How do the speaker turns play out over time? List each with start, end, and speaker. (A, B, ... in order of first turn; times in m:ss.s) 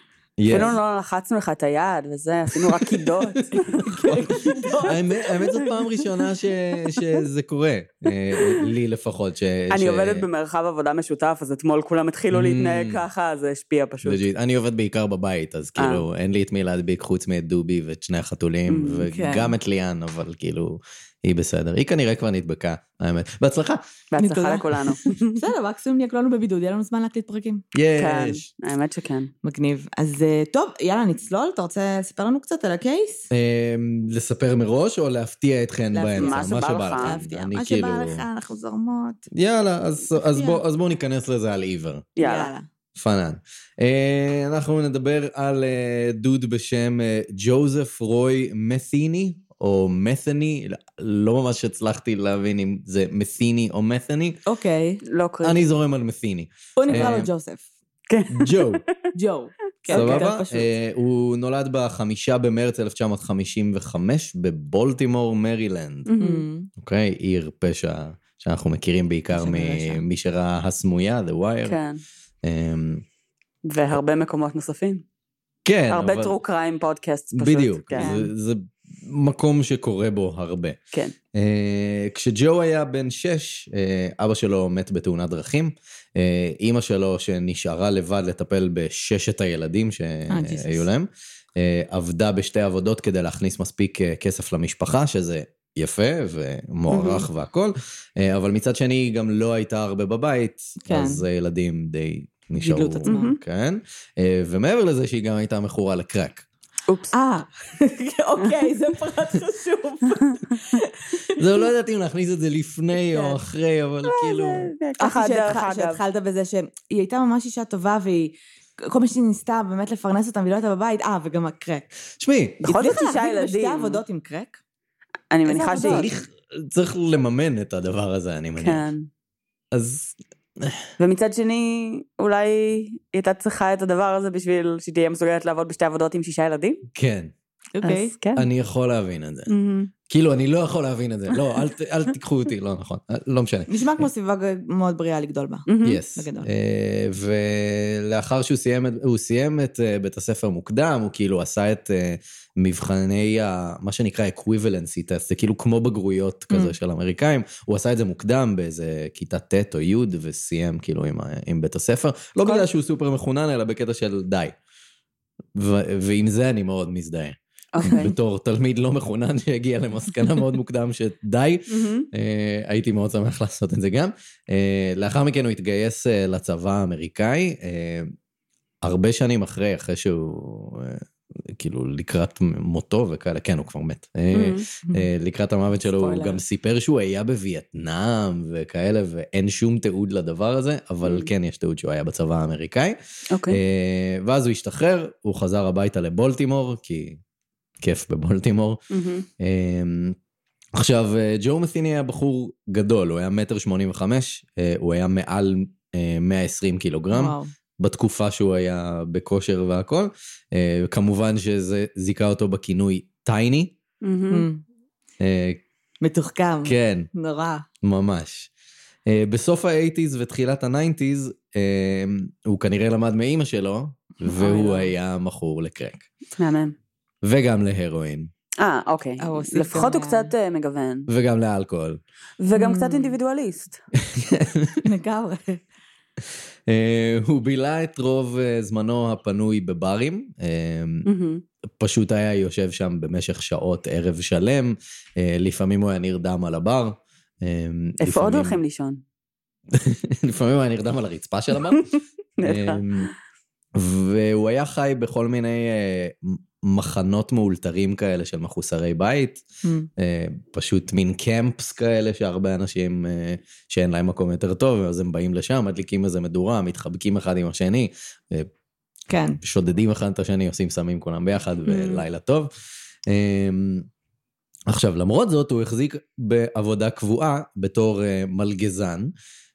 0:00.4-0:00.7 A
0:00.5-0:04.0 B
0:02.6-0:03.4 A
0:03.5-0:05.6 C
0:04.0-0:10.3 A
0:09.7-0:14.2 B
0:12.3-0:13.0 A
0:14.0-0:23.9 A
0:15.8-0:16.0 B
0:18.7-0:19.1 B
0:19.1-0:19.6 C
0:24.1-0:25.4 B
0:24.2-0:27.6 C
0:27.7-0:28.5 A
0:28.0-0:29.3 B
0:29.4-0:33.3 C
0:33.3-0:38.2 A
0:35.9-0:39.3 C
0:36.2-0:37.3 B
0:39.3-0:42.1 A
0:40.3-0:40.6 C
0:42.2-0:42.5 B
0:42.2-0:42.7 C
0:43.0-0:54.4 A
0:54.5-0:55.0 C
0:55.0-0:55.6 B
0:55.4-0:57.3 A
0:56.8-0:57.7 C
0:56.9-0:57.2 B
0:58.1-0:58.8 B
0:58.3-0:58.8 A
0:59.1-1:00.7 C
0:59.8-1:00.2 B
0:59.9-1:06.1 A
1:06.1-1:06.5 B
1:06.2-1:06.7 C
1:06.8-1:11.8 A
1:09.3-1:10.0 C
1:11.6-1:12.0 B
1:12.4-1:13.0 A
1:13.6-1:15.0 B
1:15.6-1:16.4 A
1:15.9-1:18.1 B
1:17.3-1:20.8 A
1:18.0-1:18.3 C
1:21.3-1:46.5 A
1:30.3-1:30.9 C
1:36.9-1:37.3 B
1:40.8-1:41.2 C
1:42.6-1:43.3 C
1:43.1-1:43.4 B
1:46.9-1:47.2 B
1:47.1-1:51.5 C
1:51.4-1:54.7 A
1:53.1-1:53.4 C
1:54.0-1:56.0 B
1:55.0-2:01.9 C
2:02.2-2:02.7 A
2:02.6-2:04.0 B
2:02.7-2:04.6 C
2:05.3-2:06.1 B
2:05.4-2:06.1 C
2:05.8-2:08.9 A
2:08.6-2:09.1 B
2:09.7-2:10.9 A
2:11.0-2:16.8 B
2:16.9-2:17.3 A
2:17.8-2:18.1 C
2:17.8-2:18.5 B
2:18.4-2:19.5 A
2:19.5-2:19.9 B
2:20.1-2:24.1 A
2:23.7-2:26.5 C
2:25.7-2:26.0 B
2:25.8-2:44.5 A
2:36.5-2:36.8 B
2:45.6-2:58.1 A
2:47.8-2:48.2 B
2:51.7-2:52.1 B
2:58.8-3:17.2 A
3:04.3-3:04.7 B
3:05.8-3:06.4 C
3:13.3-3:13.6 B
3:17.8-3:18.8 A
3:18.9-3:19.3 B
3:19.4-3:20.2 A
3:20.8-3:33.7 A
3:27.1-3:27.5 C
3:34.0-3:34.5 B
3:34.3-3:34.6 C
3:35.2-3:35.6 A
3:36.0-3:37.6 C
3:36.6-3:37.1 A
3:37.8-3:38.5 A
3:39.1-3:46.1 A
3:44.4-3:44.7 C
3:44.4-3:44.8 B
3:46.4-3:46.7 B
3:47.2-3:48.3 A
3:48.6-3:51.1 B
3:49.2-3:50.3 C
3:51.1-3:52.0 A
3:52.4-3:53.8 B
3:52.6-3:53.2 C
3:54.0-3:54.8 A
3:54.8-3:55.6 C
3:56.7-4:01.1 A
4:01.1-4:01.4 B
4:01.8-4:08.6 A
4:08.0-4:09.0 B
4:09.7-4:11.9 A
4:12.4-4:12.8 B
4:12.4-4:13.1 A
4:13.8-4:19.4 A
4:20.0-4:28.5 A
4:29.1-4:29.4 C
4:29.4-4:32.5 A
4:31.7-4:32.0 B
4:33.1-4:33.9 A
4:34.7-4:39.1 A